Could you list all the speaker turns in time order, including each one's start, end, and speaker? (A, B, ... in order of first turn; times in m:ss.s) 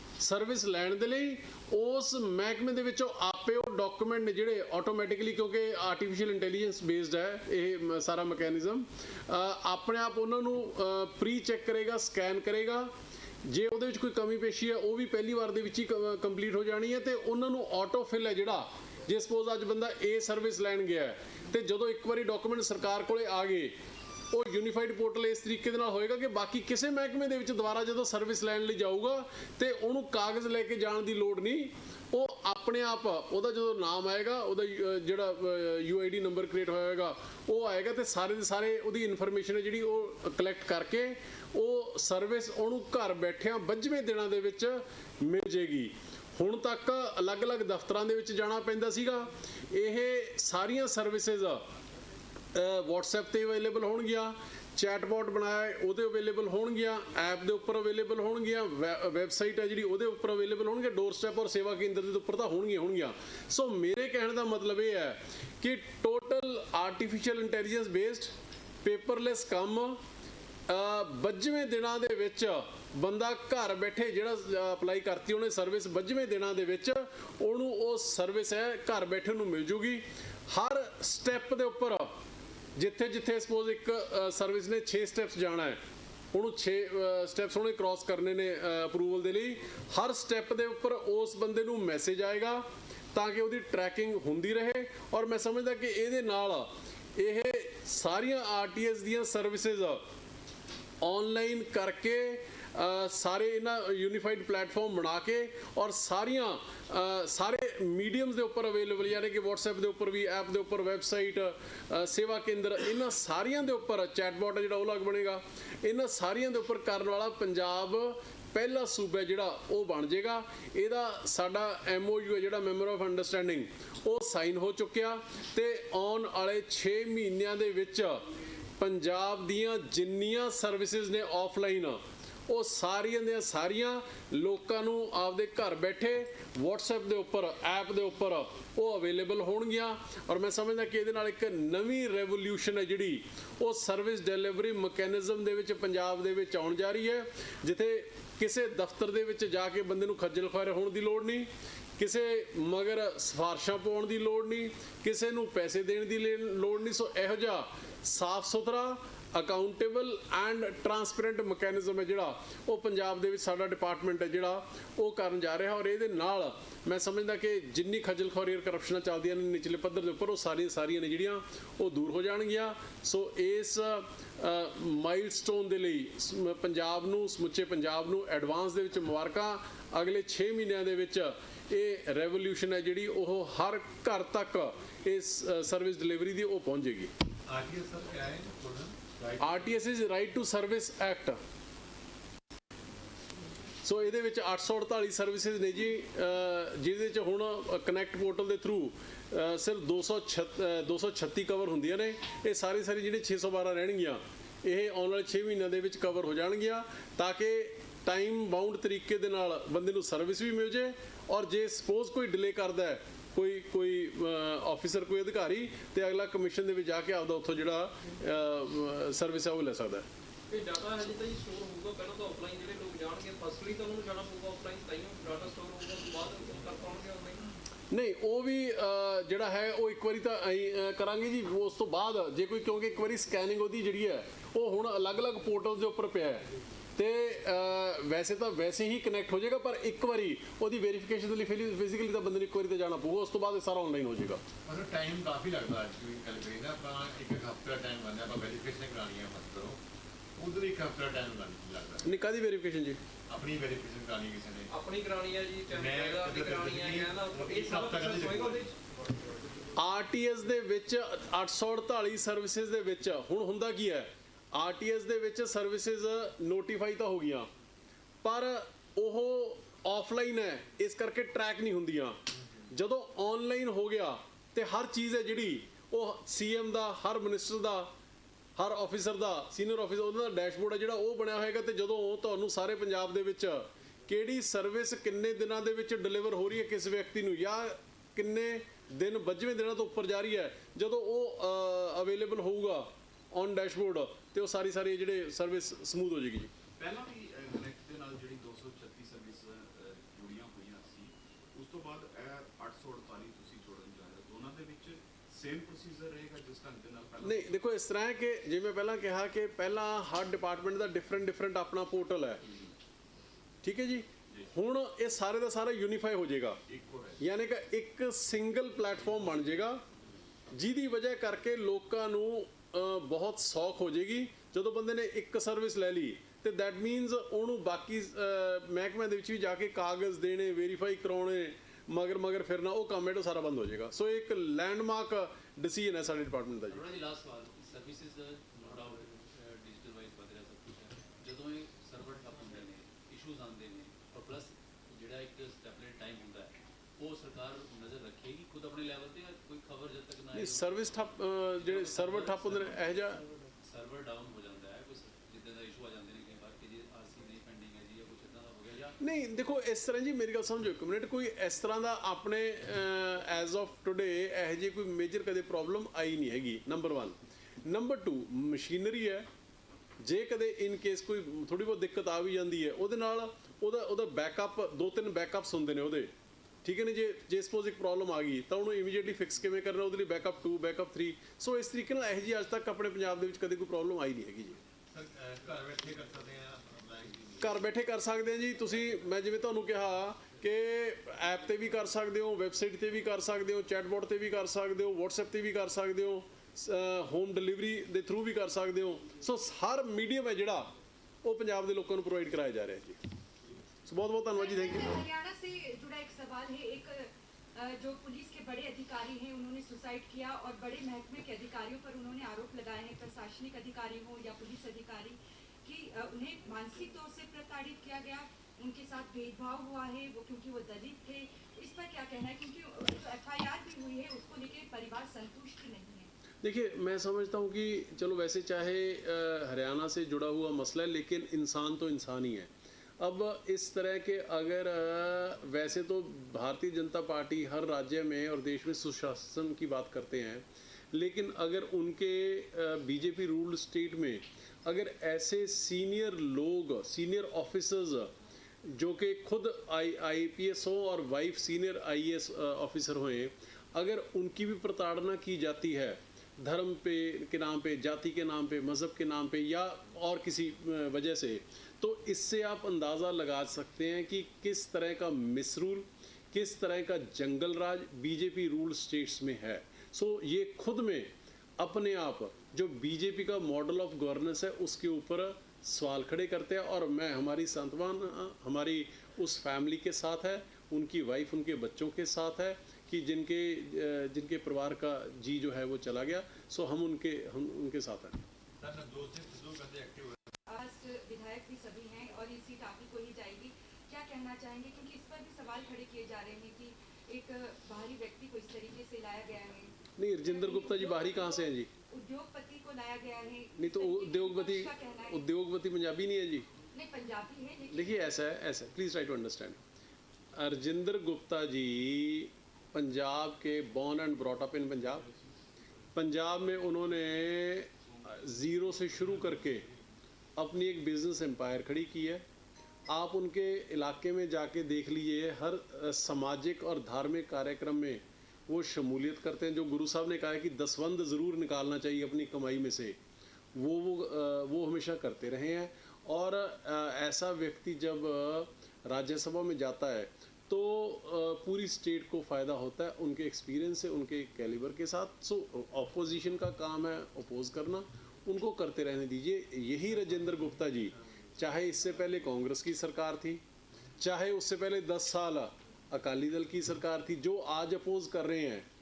0:00.2-0:12.9 A
0:13.4-0:23.7 A
0:24.3-0:51.6 A
0:52.5-1:10.0 A
1:10.7-1:22.1 A
1:22.8-1:25.8 A
1:26.3-1:40.0 A
1:41.0-2:08.2 A
2:08.8-3:07.1 A
3:07.5-3:09.6 B
3:09.4-3:11.4 A
3:13.8-3:40.0 A
3:40.5-3:47.4 C
3:47.9-3:56.4 A
3:57.0-4:04.4 A
4:04.6-4:09.8 B
4:10.4-4:12.2 B
4:12.0-4:13.0 A
4:13.3-4:14.9 B
4:14.7-4:19.3 C
4:15.7-4:18.7 B
4:19.8-4:27.5 A
4:28.2-4:32.2 A
4:32.7-4:37.9 A
4:38.6-4:56.5 A
4:56.8-5:07.6 D
5:07.2-5:12.4 A
5:13.6-5:16.6 A
5:16.7-5:17.2 D
5:17.2-5:19.8 A
5:20.5-5:36.9 A
5:36.7-5:50.7 E
5:50.3-5:53.2 A
5:51.6-5:59.0 E
5:59.0-6:09.3 A
6:10.0-6:16.1 A
6:16.6-6:24.6 A
6:24.9-6:27.6 B
6:27.4-6:40.7 A
6:41.2-6:43.0 A
6:43.8-6:45.0 A
6:44.3-7:06.1 F
7:06.4-7:28.1 A
7:28.6-8:08.2 A
8:08.6-8:10.2 B
8:10.5-8:25.2 F
8:20.0-8:21.7 A
8:23.6-8:26.5 A
8:26.7-8:28.2 F
8:27.7-8:29.6 A
8:30.3-8:35.1 A
8:35.9-8:39.7 A
8:40.4-8:42.2 A
8:42.9-8:53.0 A
8:53.5-9:13.4 A
9:14.0-9:18.7 A